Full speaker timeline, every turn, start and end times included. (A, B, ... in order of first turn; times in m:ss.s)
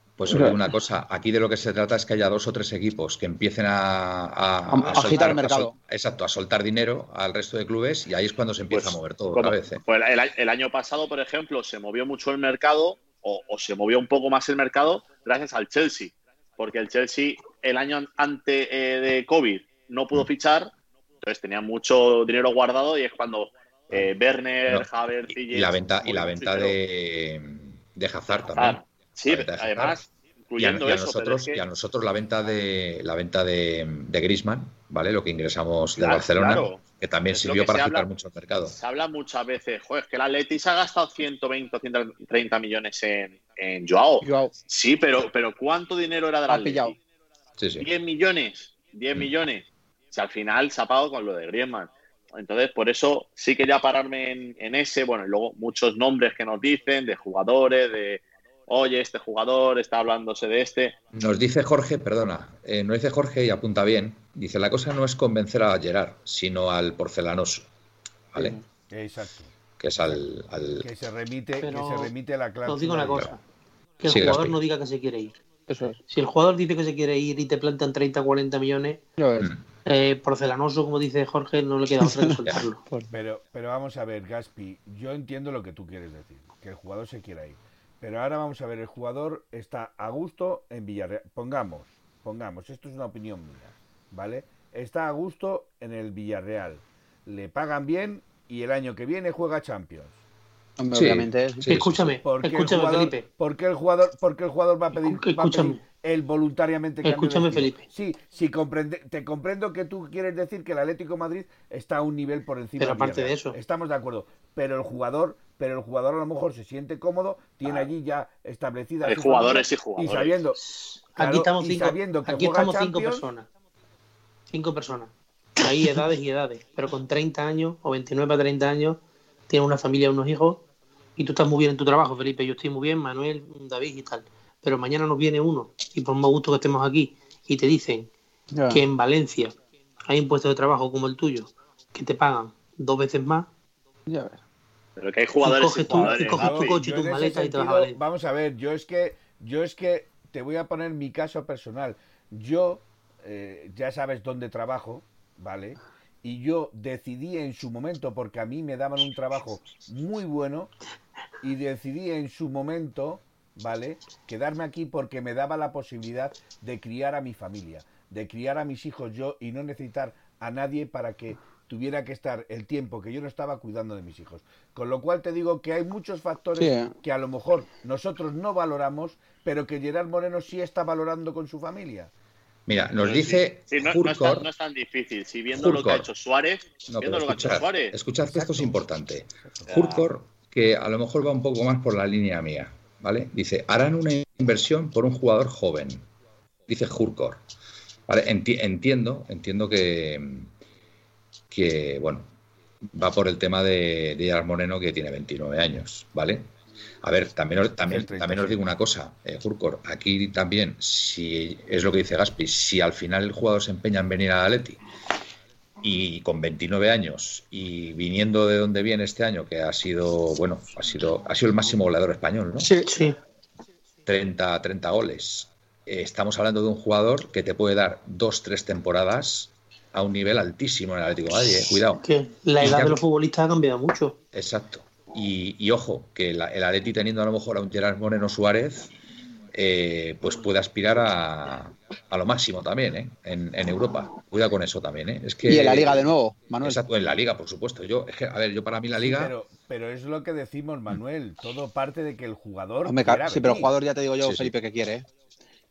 0:00.2-0:09.8 A
0:00.3-0:00.6 B
0:04.7-0:05.7 B
0:08.7-0:26.8 C
0:24.7-0:30.0 A
0:28.3-0:31.6 C
0:30.6-0:38.8 A
0:36.0-0:38.1 C
0:38.7-0:47.0 C
0:44.2-0:44.5 B
0:46.5-0:46.9 B
0:47.6-0:47.9 A
0:47.8-1:01.0 C
1:01.1-1:07.7 A
1:08.3-1:08.6 A
1:08.4-1:08.6 B
1:08.9-1:09.5 D
1:09.8-1:10.9 A
1:10.8-1:13.3 D
1:11.6-1:12.1 E
1:12.6-1:13.4 E
1:14.0-1:15.4 E
1:14.0-1:14.6 A
1:15.7-1:16.0 B
1:16.1-1:19.0 E
1:19.2-1:19.5 B
1:19.8-1:22.8 E
1:22.0-1:22.4 B
1:23.1-1:40.2 D
1:40.8-1:41.7 B
1:40.9-1:42.1 A
1:41.6-1:43.2 E
1:42.2-2:00.6 D
1:44.9-1:45.8 E
1:47.0-1:47.8 E
1:52.8-1:53.6 E
1:59.0-2:00.3 C
2:00.6-2:03.5 E
2:01.2-2:03.3 D
2:04.5-2:10.6 E
2:11.2-2:18.1 E
2:18.5-2:18.8 B
2:18.7-2:19.5 E
2:20.0-2:23.5 E
2:24.1-2:24.4 B
2:25.0-2:26.8 C
2:25.4-2:28.0 E
2:26.0-2:40.7 D
2:41.4-3:02.1 D
2:56.6-2:56.9 B
3:02.7-3:04.5 A
3:03.0-3:08.0 C
3:05.5-3:06.1 A
3:06.9-3:16.1 A
3:08.3-3:08.7 D
3:09.7-3:10.1 C
3:16.7-3:17.4 A
3:18.1-3:20.5 A
3:21.5-3:22.3 A
3:22.9-3:26.5 A
3:27.0-3:34.8 A
3:27.8-3:28.6 D
3:35.8-3:42.7 A
3:42.6-3:42.9 B
3:42.8-3:43.2 E
3:44.0-3:52.0 A
3:51.9-3:54.2 E
3:52.6-3:53.0 A
3:54.3-3:58.9 A
3:59.5-4:06.1 A
4:05.4-4:06.8 B
4:06.6-4:09.3 A
4:09.0-4:13.7 D
4:12.8-4:15.1 B
4:14.2-4:14.5 A